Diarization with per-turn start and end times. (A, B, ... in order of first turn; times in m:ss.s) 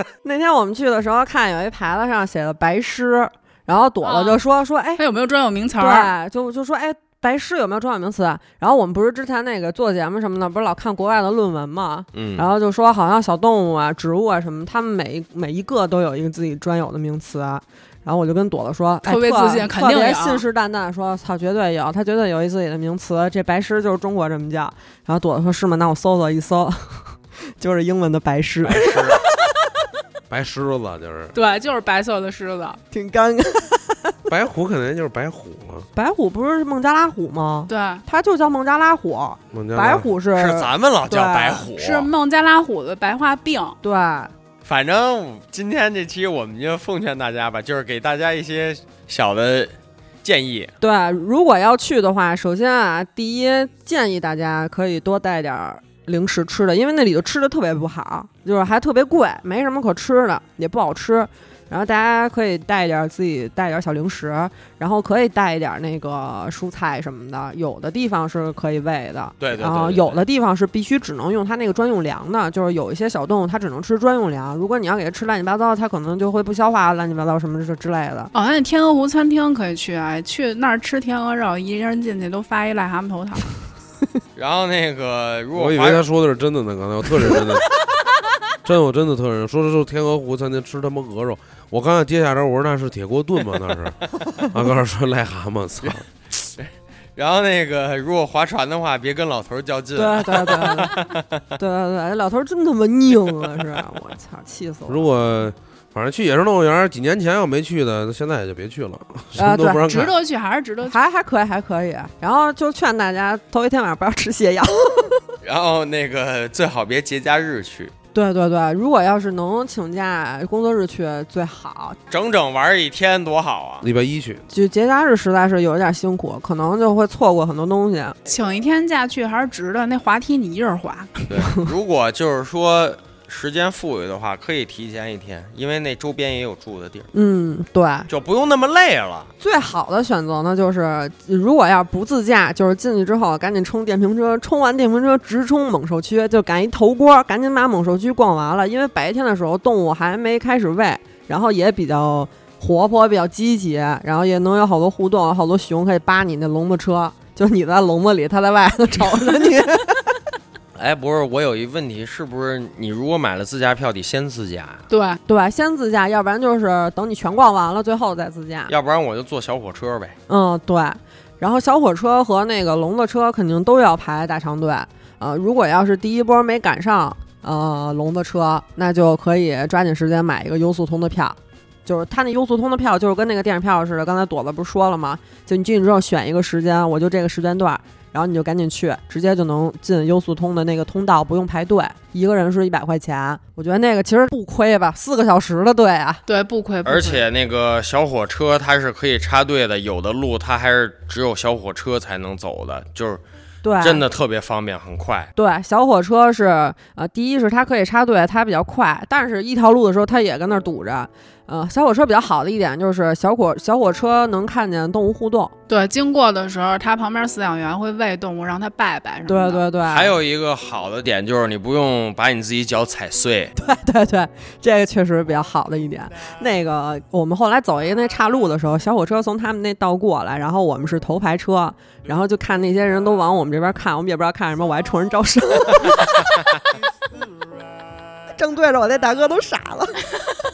0:00.2-0:05.0 A
0:04.0-0:04.4 B
0:05.0-0:06.1 B
0:05.8-0:29.3 A
0:12.1-0:12.5 C
0:19.0-0:20.4 B
0:28.6-0:29.2 C
0:30.3-0:31.3 D
0:31.3-0:32.8 B
0:32.9-0:34.1 A
0:34.3-0:35.9 D
0:36.0-0:41.7 A
0:37.7-0:38.0 B
0:39.5-0:40.1 D
0:40.3-0:42.1 C
0:41.8-0:43.8 B
0:43.8-0:44.3 A
0:44.6-0:50.7 C
0:50.8-1:18.3 A
1:09.4-1:10.2 C
1:18.3-1:23.5 B
1:24.4-1:26.0 C
1:25.6-1:27.7 D
1:28.6-1:36.0 D
1:36.6-1:41.4 C
1:40.0-1:41.0 A
1:41.6-1:45.1 A
1:44.9-1:50.2 D
1:49.4-1:49.9 A
1:49.9-1:51.0 B
1:50.9-1:55.2 A
1:55.4-1:57.9 C
1:58.1-2:02.0 A
2:02.1-2:03.9 C
2:03.8-2:04.4 D
2:04.5-2:08.2 A
2:08.3-2:11.3 B
2:11.3-2:17.1 C
2:17.1-2:18.1 A
2:18.1-2:19.3 C
2:19.4-2:40.2 A
2:40.7-2:44.8 C
2:44.9-2:45.2 B
2:45.3-2:48.7 A
2:48.7-2:50.2 C
2:50.3-3:16.2 A
3:16.3-3:17.3 B
3:16.8-3:23.2 C
3:23.6-3:24.0 A
3:23.8-3:25.3 C
3:25.3-3:35.5 A
3:35.7-3:39.6 B
3:39.3-3:40.2 A
3:39.8-3:43.5 C
3:43.6-3:56.4 A
3:56.0-3:56.5 C
3:58.4-4:00.1 A